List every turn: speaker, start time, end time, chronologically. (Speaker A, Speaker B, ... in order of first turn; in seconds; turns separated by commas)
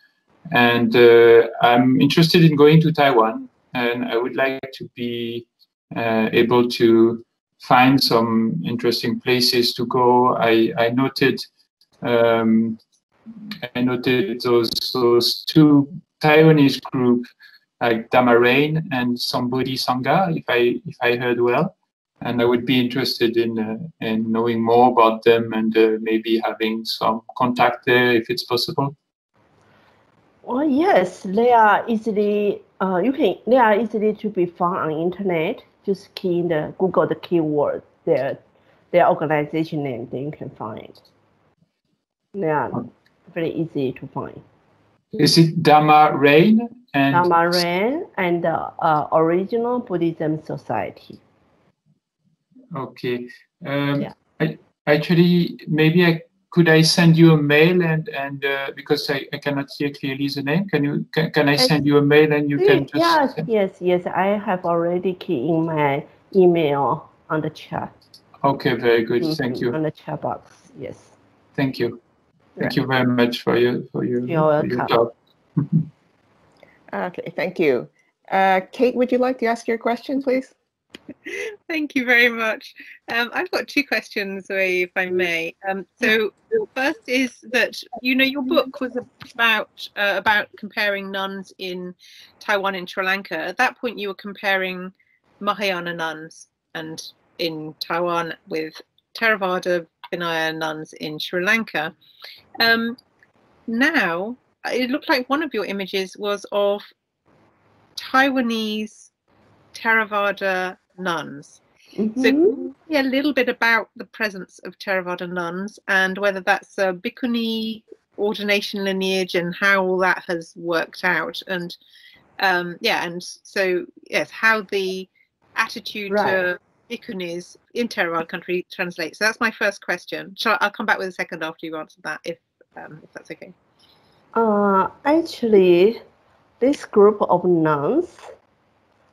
Speaker A: 0.5-11.5, Speaker A: 12.0-12.8, Speaker A: 13.6-17.3, Speaker A: 17.8-28.9, Speaker B: 30.4-38.4, Speaker B: 38.9-41.0, Speaker B: 42.4-44.4, Speaker A: 45.1-47.6, Speaker B: 47.1-51.2, Speaker A: 52.7-63.5, Speaker B: 62.6-67.9, Speaker A: 68.4-69.8, Speaker B: 69.2-71.2, Speaker A: 71.6-72.0, Speaker A: 72.6-75.9, Speaker B: 74.3-75.0, Speaker C: 76.9-80.5, Speaker D: 81.3-101.9, Speaker D: 102.6-103.0, Speaker D: 103.7-106.9, Speaker D: 108.0-109.1, Speaker D: 109.7-111.6, Speaker B: 112.0-112.6, Speaker D: 112.2-121.8, Speaker D: 122.4-133.5, Speaker B: 126.1-126.4, Speaker B: 134.3-136.0, Speaker B: 136.6-138.3